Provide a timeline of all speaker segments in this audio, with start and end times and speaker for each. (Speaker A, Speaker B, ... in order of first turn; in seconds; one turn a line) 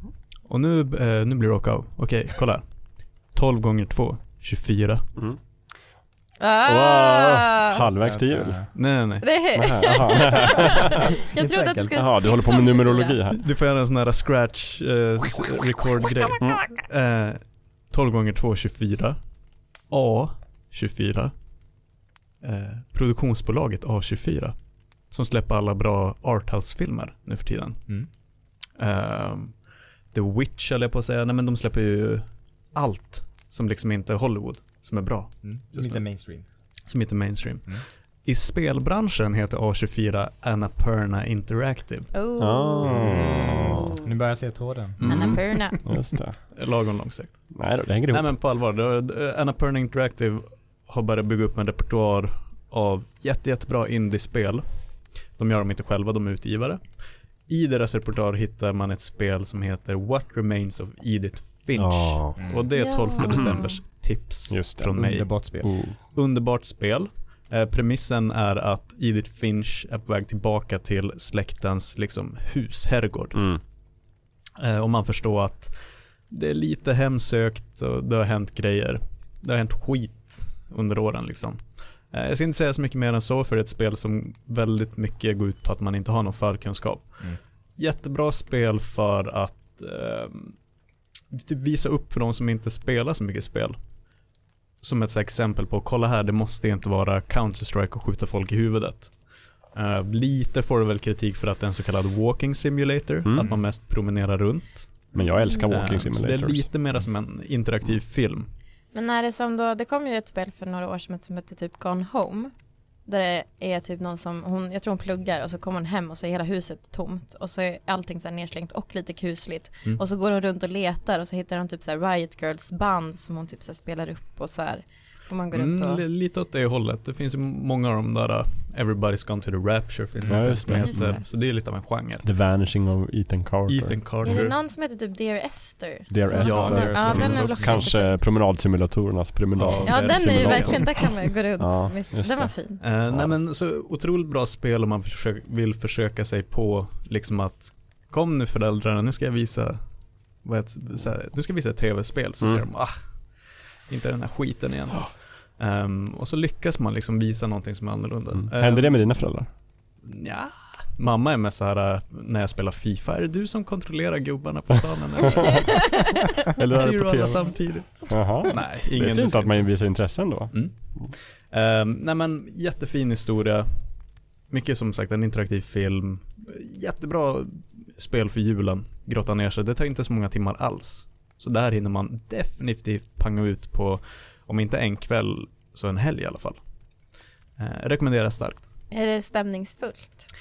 Speaker A: 0.5-2.6
Speaker A: 3.3-5.0
Speaker B: 6.4-7.8
Speaker C: 6.6-8.6
Speaker D: 8.0-8.7
Speaker A: 8.7-9.2
Speaker B: 9.2-13.2
Speaker C: 9.5-10.9
Speaker D: 11.3-12.0
Speaker C: 11.9-13.4
Speaker A: 13.3-17.4
Speaker A: 17.9-19.2
Speaker A: 19.9-21.3
Speaker A: 22.4-24.5
Speaker A: 25.1-27.8
Speaker A: 28.8-29.5
Speaker A: 30.1-36.0
Speaker D: 35.4-36.5
Speaker A: 36.9-42.1
Speaker B: 42.1-44.0
Speaker C: 42.4-43.9
Speaker D: 44.0-45.0
Speaker A: 45.0-45.4
Speaker B: 45.0-45.8
Speaker C: 45.1-46.4
Speaker A: 46.5-47.5
Speaker C: 47.5-48.3
Speaker A: 48.1-54.6
Speaker A: 55.4-56.8
Speaker A: 57.5-73.4
Speaker C: 61.7-62.4
Speaker D: 62.4-62.7
Speaker B: 62.7-63.8
Speaker C: 64.5-65.0
Speaker D: 64.9-65.8
Speaker C: 65.6-66.0
Speaker C: 73.3-73.6
Speaker A: 74.6-75.7
Speaker A: 76.3-90.6
Speaker A: 91.3-93.8
Speaker A: 94.8-99.1
Speaker A: 99.7-105.0
Speaker C: 103.2-103.5
Speaker C: 105.1-106.7
Speaker A: 105.7-108.5
Speaker B: 108.9-112.5
Speaker B: 113.0-126.0
Speaker A: 125.5-132.2
Speaker D: 130.1-130.8
Speaker C: 130.3-131.2
Speaker B: 130.8-131.2
Speaker C: 132.2-134.2
Speaker A: 133.7-134.5
Speaker B: 134.2-138.2
Speaker C: 136.1-142.5
Speaker A: 136.4-137.7
Speaker D: 136.5-137.8
Speaker A: 139.6-140.9
Speaker B: 139.8-142.8
Speaker A: 142.8-149.8
Speaker C: 143.1-143.3
Speaker A: 150.4-152.9
Speaker A: 153.9-159.2
Speaker C: 158.3-159.5
Speaker A: 160.0-165.9
Speaker A: 166.5-169.8
Speaker C: 166.5-170.5
Speaker A: 171.5-173.7
Speaker A: 174.5-186.6
Speaker A: 187.6-188.7
Speaker B: 188.9-190.3